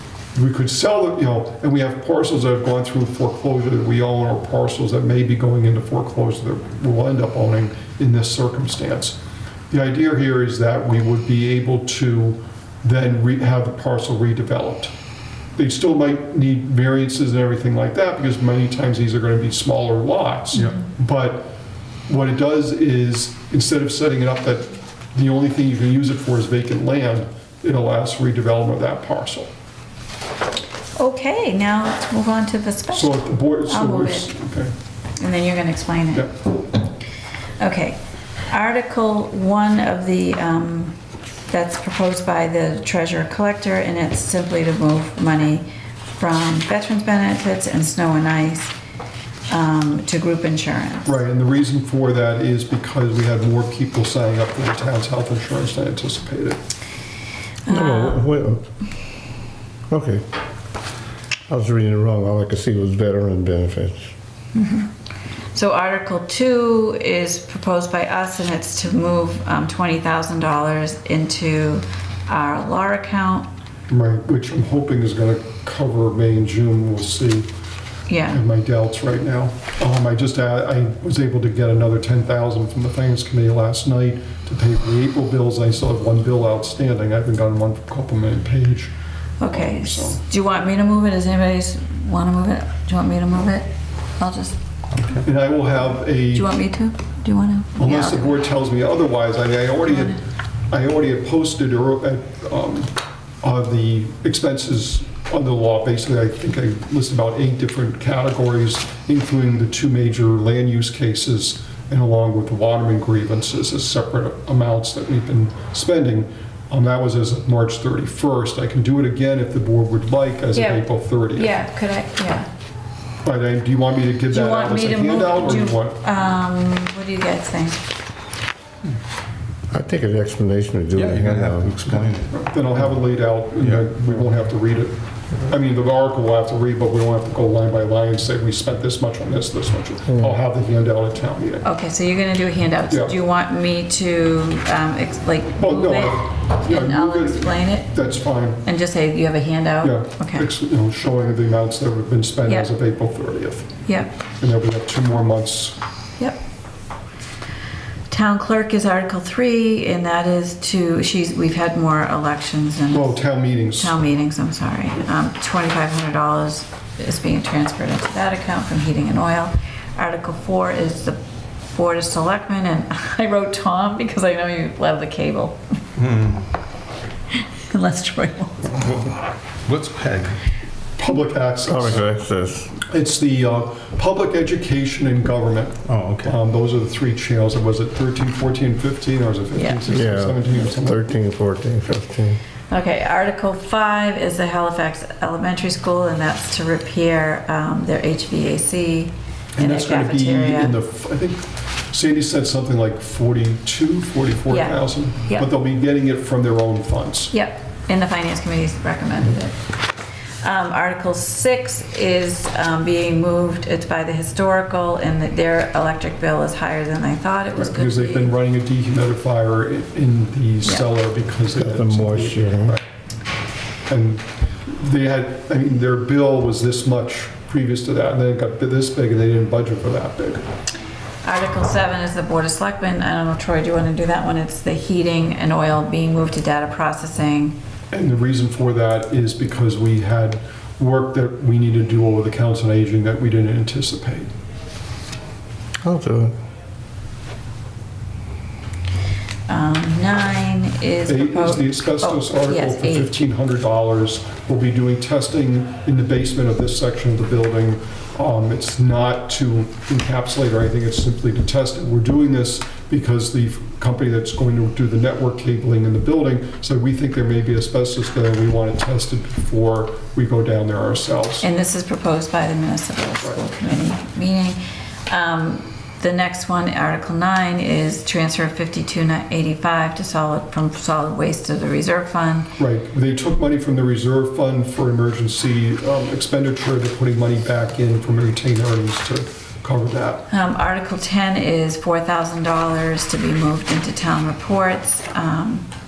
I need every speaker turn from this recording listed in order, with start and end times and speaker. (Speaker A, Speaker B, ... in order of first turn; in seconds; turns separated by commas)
Speaker A: 0.3-9.2, Speaker A: 9.7-14.9, Speaker A: 15.6-21.5, Speaker A: 22.1-29.5, Speaker B: 31.0-34.3, Speaker A: 32.9-34.7, Speaker B: 35.2-36.3, Speaker B: 37.6-38.0, Speaker B: 38.5-40.9, Speaker B: 41.5-45.6, Speaker B: 46.2-48.7, Speaker B: 49.5-51.1, Speaker A: 51.0-56.6, Speaker B: 57.6-58.2, Speaker C: 57.7-58.6, Speaker C: 59.9-60.2, Speaker C: 61.5-64.1, Speaker B: 64.5-64.9, Speaker B: 65.5-73.5, Speaker A: 73.9-77.5, Speaker B: 78.1-78.4, Speaker A: 78.3-88.9, Speaker B: 89.4-93.7, Speaker A: 89.4-90.2, Speaker B: 94.2-94.5, Speaker D: 94.9-95.2, Speaker A: 95.2-96.5, Speaker B: 96.3-98.4, Speaker A: 97.8-100.2, Speaker B: 99.9-100.2, Speaker A: 100.7-121.6, Speaker B: 120.5-122.5, Speaker A: 123.2-126.0, Speaker B: 124.3-127.8, Speaker C: 129.7-131.9, Speaker D: 130.9-132.4, Speaker A: 132.3-134.9, Speaker D: 133.6-133.9, Speaker A: 135.5-141.7, Speaker C: 140.1-140.3, Speaker B: 141.6-147.9, Speaker A: 142.9-143.1, Speaker A: 145.6-148.6, Speaker B: 148.6-150.5, Speaker A: 149.8-153.7, Speaker A: 154.4-155.8, Speaker B: 158.1-171.2, Speaker A: 162.9-163.9, Speaker B: 171.7-175.6, Speaker D: 175.9-176.5, Speaker B: 177.3-178.7, Speaker D: 178.8-179.1, Speaker D: 179.6-180.4, Speaker A: 181.0-182.1, Speaker C: 181.7-182.7, Speaker A: 182.9-191.1, Speaker D: 185.8-186.4, Speaker B: 189.5-189.8, Speaker C: 189.9-192.4, Speaker B: 192.7-200.8, Speaker A: 199.6-207.3, Speaker B: 204.5-205.5, Speaker B: 207.3-209.6, Speaker B: 210.4-218.3, Speaker A: 217.5-222.8, Speaker C: 221.5-222.8, Speaker A: 223.9-230.4, Speaker B: 231.2-237.5, Speaker A: 237.9-244.3, Speaker C: 245.8-246.3, Speaker B: 249.5-253.1, Speaker A: 251.1-271.4, Speaker B: 271.4-282.5, Speaker A: 273.2-273.7, Speaker A: 282.6-290.2, Speaker B: 290.3-295.6